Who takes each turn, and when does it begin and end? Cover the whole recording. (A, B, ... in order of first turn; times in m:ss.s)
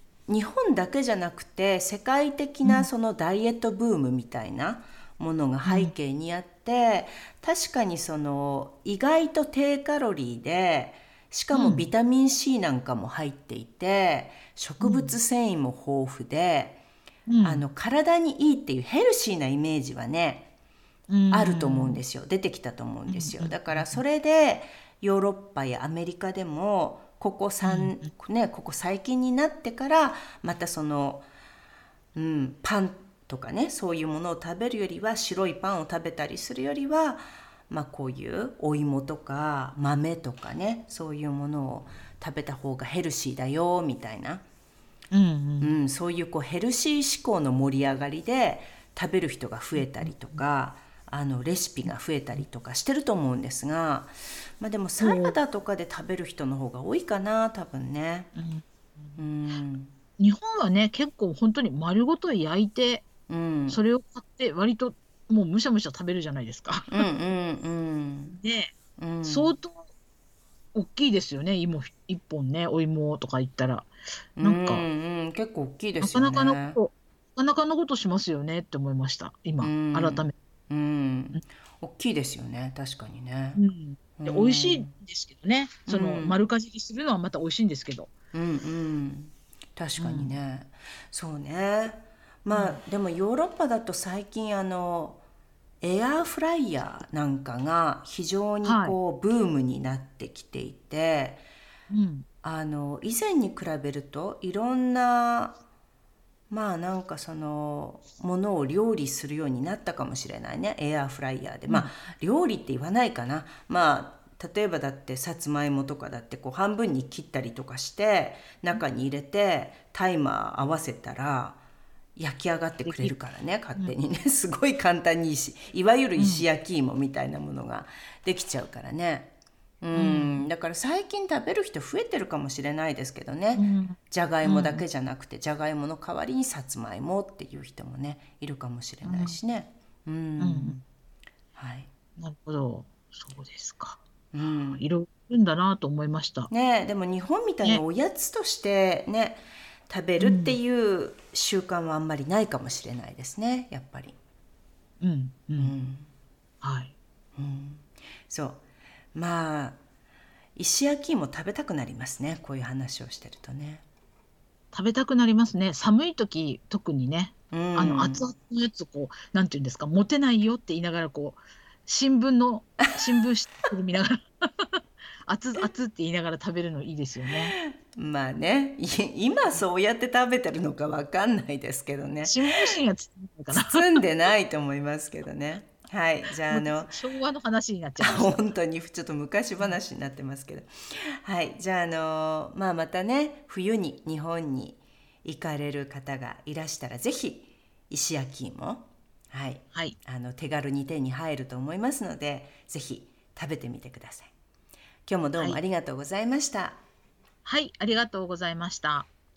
0:00.3-0:16.8 A
0:05.6-0:05.9 B
0:11.5-0:11.9 B
0:14.8-0:15.2 B
0:17.3-0:17.6 B
0:17.4-0:20.5 A
0:21.1-0:22.0 B
0:21.3-0:31.2 A
0:23.1-0:24.0 B
0:27.6-0:28.1 B
0:32.1-0:44.4 A
0:45.1-0:45.7 B
0:45.6-0:58.3 A
0:49.8-0:50.4 B
0:55.0-0:55.4 B
0:58.4-0:59.2 B
0:59.2-0:59.9 A
1:00.2-1:03.1 B
1:03.3-1:03.8 A
1:03.7-1:07.1 B
1:06.9-1:08.4 A
1:08.3-1:09.8 B
1:09.0-1:09.5 A
1:10.7-1:13.9 B
1:14.4-1:16.8 A
1:14.4-1:14.8 B
1:16.0-1:20.3 B
1:19.6-1:23.6 A
1:23.5-1:28.1 B
1:24.2-1:24.9 A
1:25.9-1:26.4 A
1:28.3-1:35.2 A
1:30.0-1:30.3 B
1:32.5-1:32.8 B
1:35.8-1:41.4 A
1:38.6-1:39.0 B
1:41.9-1:42.3 B
1:42.4-1:45.6 A
1:46.5-2:01.6 A
1:51.7-1:51.9 B
2:02.2-2:20.8 A
2:02.8-2:03.1 B
2:06.2-2:06.4 B
2:09.9-2:10.4 B
2:13.6-2:14.8 B
2:19.0-2:19.4 B
2:20.4-2:20.8 B
2:21.6-2:21.9 A
2:22.2-2:24.0 B
2:24.3-2:24.8 A
2:24.7-2:26.5 B
2:26.5-2:34.2 A
2:30.2-2:30.6 B
2:35.0-2:35.7 B
2:35.6-2:36.1 A
2:36.6-2:36.9 B
2:37.4-2:38.6 A
2:39.1-2:39.8 A
2:40.6-2:43.8 A
2:44.7-2:57.5 B
2:47.5-2:48.3 A
2:57.5-3:02.7 A
3:02.2-3:03.9 B
3:03.5-3:06.9 A
3:06.5-3:08.5 B
3:08.0-3:24.3 A
3:25.0-3:26.8 A
3:27.4-3:29.1 B